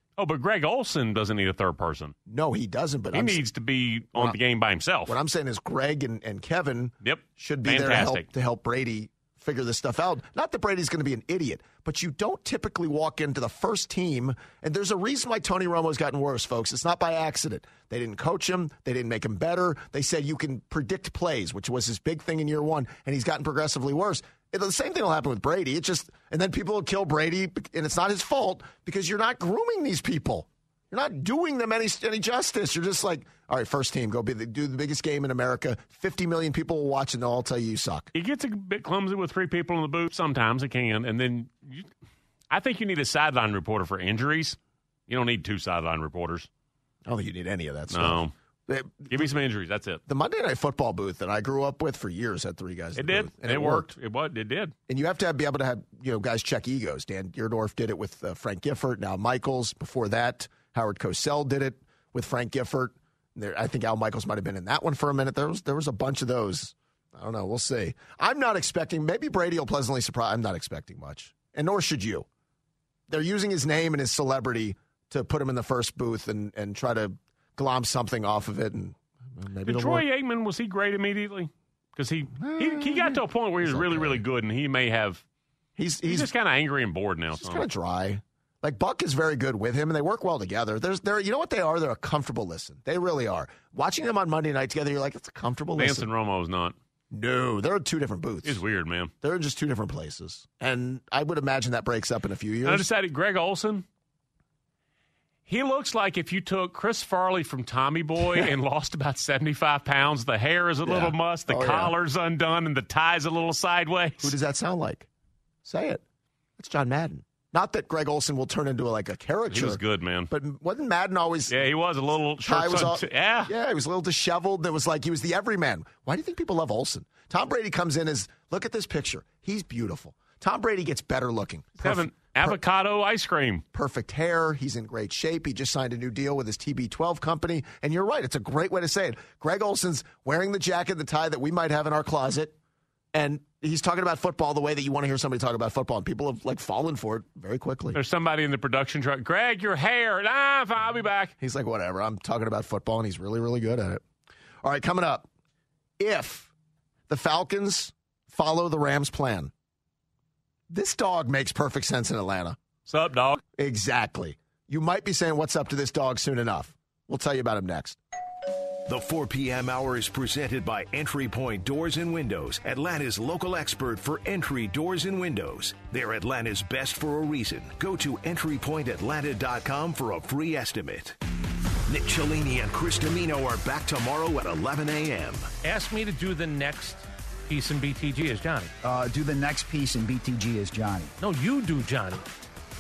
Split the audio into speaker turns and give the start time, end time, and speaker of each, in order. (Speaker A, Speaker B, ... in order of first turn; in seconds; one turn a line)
Speaker A: 0.2-2.1
Speaker B: 2.3-3.4
Speaker A: 3.1-5.2
Speaker B: 5.1-38.1
Speaker A: 7.0-8.3
Speaker A: 38.1-41.9
Speaker A: 42.5-44.6
Speaker A: 45.1-46.5
Speaker B: 47.1-49.3
Speaker A: 47.9-48.3
Speaker A: 49.0-50.0
Speaker B: 50.1-53.9
Speaker A: 53.0-54.7
Speaker B: 54.9-72.3
Speaker B: 73.1-80.0
Speaker A: 79.7-85.2
Speaker B: 82.4-84.2
Speaker B: 85.8-86.3
Speaker A: 86.1-87.7
Speaker B: 87.3-96.1
Speaker A: 95.8-96.8
Speaker B: 97.1-98.6
Speaker A: 98.4-99.1
Speaker B: 99.2-102.9
Speaker A: 102.7-103.9
Speaker A: 105.5-114.3
Speaker B: 108.2-108.5
Speaker B: 110.8-111.9
Speaker B: 114.2-115.1
Speaker B: 115.6-116.0
Speaker B: 116.6-121.7
Speaker A: 119.5-120.3
Speaker A: 121.5-123.5
Speaker B: 122.4-132.6
Speaker A: 131.8-133.6
Speaker B: 133.7-142.6
Speaker B: 143.1-148.0
Speaker A: 147.9-151.3
Speaker B: 151.4-154.0
Speaker B: 154.6-155.3
Speaker B: 156.0-156.5
Speaker B: 157.1-159.5
Speaker B: 160.7-162.6
Speaker A: 162.9-163.4
Speaker B: 163.6-168.0
Speaker C: 168.9-181.2
Speaker C: 181.9-185.5
Speaker D: 185.6-188.7
Speaker E: 188.8-191.1
Speaker D: 191.2-192.3